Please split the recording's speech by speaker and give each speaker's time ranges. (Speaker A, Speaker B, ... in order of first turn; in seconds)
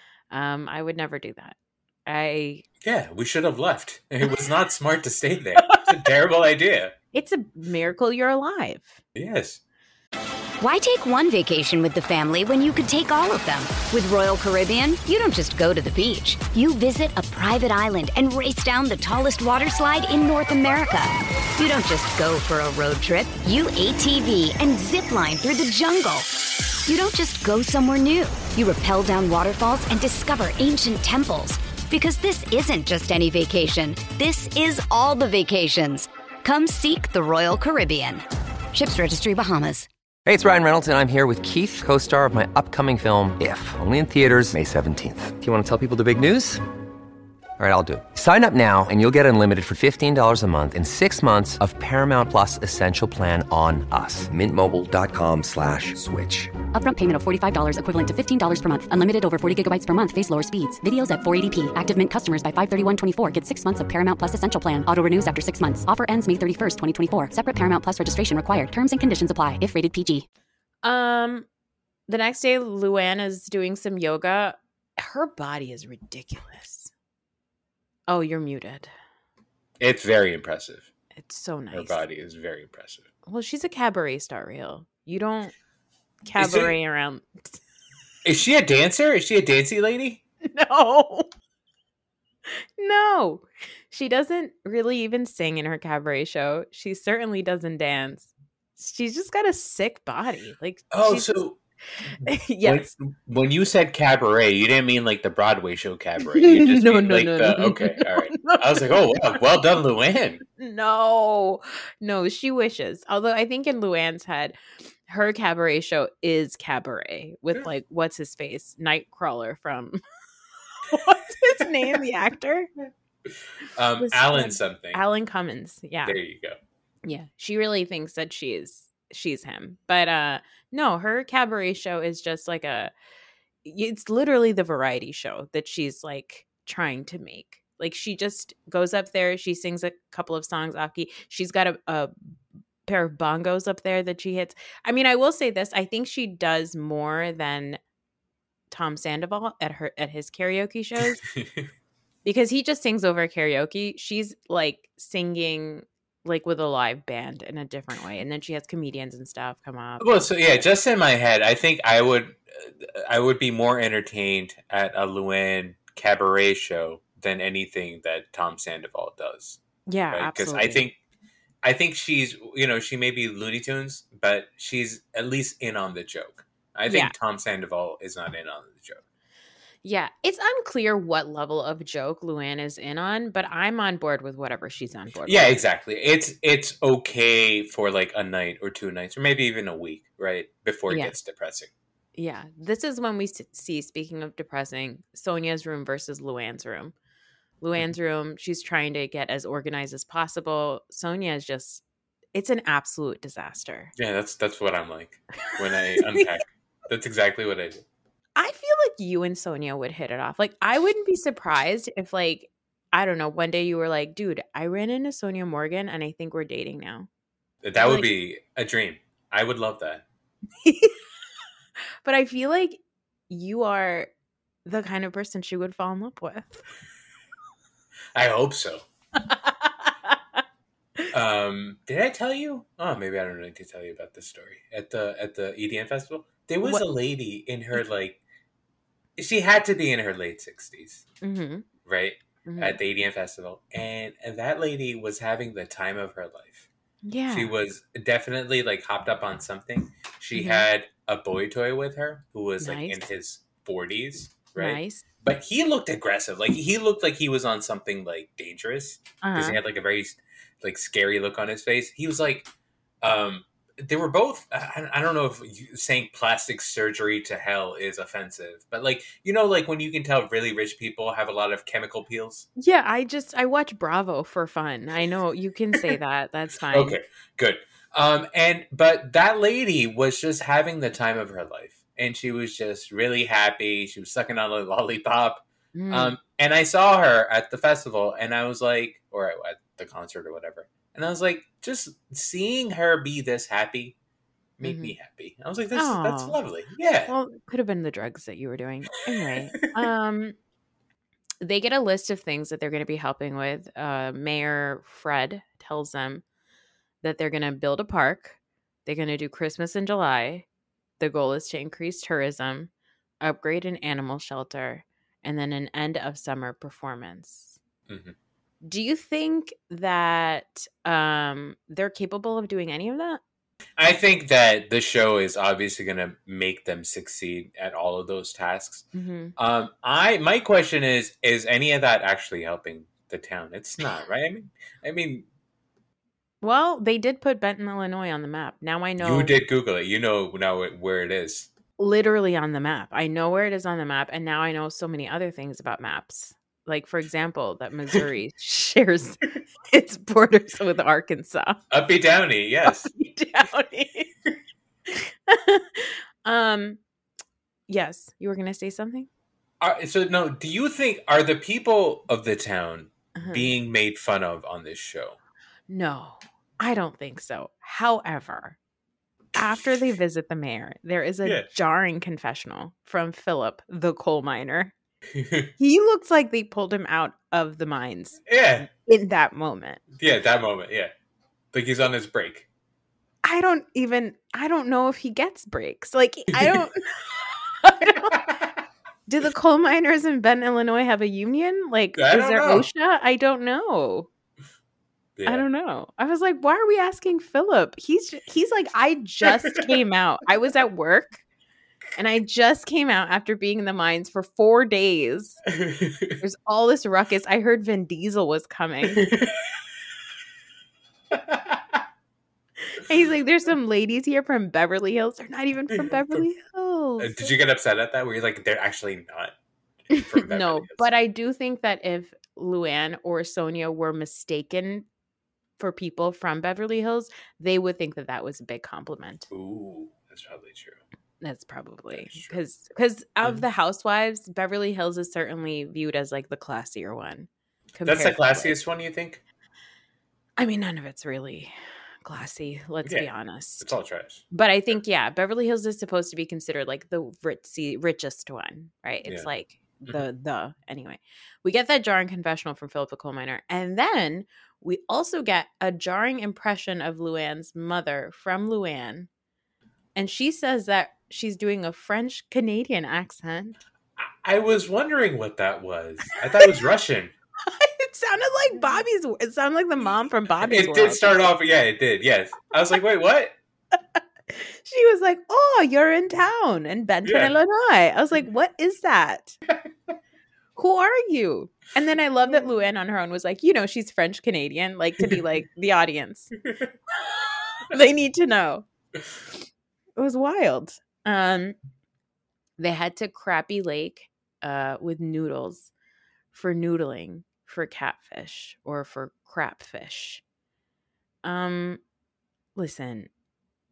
Speaker A: 0.3-2.6, 7.1-9.0, 70.8-71.5, 72.1-76.9, 78.1-78.9, 81.2-82.0, 83.3-85.5, 86.2-87.6, 90.4-91.3, 92.8-101.4, 102.2-102.9, 106.3-109.2, 110.6-114.5, 115.1-120.0, 120.9-122.7, 124.0-126.2, 127.0-132.9, 133.6-142.1, 142.8-147.8, 148.7-151.2, 152.2-160.2, 169.8-170.8, 179.8-185.6, 190.9-191.1, 192.2-196.9, 197.6-201.8, 202.3-203.9, 208.3-217.1, 217.8-218.1, 220.6-220.9, 222.0-222.8, 223.3-224.1, 224.7-226.6, 229.2-230.2, 241.2-241.7, 242.4-242.8, 247.0-247.5, 250.3-250.7, 252.6-253.1, 254.6-255.0, 259.2-259.6, 272.6-277.0, 285.7-286.2, 294.6-294.9, 295.7-296.4, 297.1-300.4, 301.4-306.2, 307.0-310.4, 311.0-317.6, 318.6-323.2, 328.9-329.3, 336.4-339.3, 341.8-351.6, 352.6-354.1, 354.9-356.8, 357.7-359.1, 363.2-363.5, 365.7-368.6, 369.3-374.7, 375.6-379.8, 383.2-387.0, 387.6-388.3, 389.1-394.1, 395.2-401.2, 402.0-405.4, 406.2-409.2, 412.7-417.3, 419.9-424.9, 425.6-429.3, 431.2-438.6, 440.4-443.7, 444.3-459.1, 459.9-463.6, 467.4-471.3, 473.7-479.4, 480.6-486.3, 487.6-488.6, 489.9-491.6, 492.6-495.7, 496.3-500.2, 501.2-501.8, 502.6-503.1
Speaker B: 2.8-6.9, 9.2-9.6, 79.8-80.9, 81.7-83.1, 86.4-86.7, 88.2-90.2, 100.9-101.6, 102.6-110.4, 123.7-125.0, 126.0-126.6, 151.3-151.7, 160.0-169.6, 170.1-170.9, 171.6-179.0, 185.2-191.7, 204.0-207.8, 217.6-220.0, 228.1-228.8, 231.1-238.2, 239.2-241.0, 241.8-246.7, 247.3-262.5, 263.0-272.5, 276.7-293.9, 294.6-297.1, 317.9-318.1, 323.8-328.9, 329.4-335.3, 339.0-341.5, 351.7-352.9, 359.6-365.2, 369.4-369.8, 375.1-375.5, 378.3-378.7, 380.0-380.9, 381.5-382.4, 386.3-386.6, 387.9-388.6, 391.9-392.7, 395.2-395.4, 405.5-406.2, 408.9-409.3, 411.1-411.8, 415.7-416.2, 417.0-419.3, 419.9-420.9, 429.3-430.8, 431.9-432.4, 437.8-439.2, 443.6-444.2, 464.0-467.1, 470.4-473.3, 477.1-477.3
Speaker C: 10.6-39.9
Speaker D: 40.2-46.6, 47.6-56.5
Speaker E: 56.7-70.2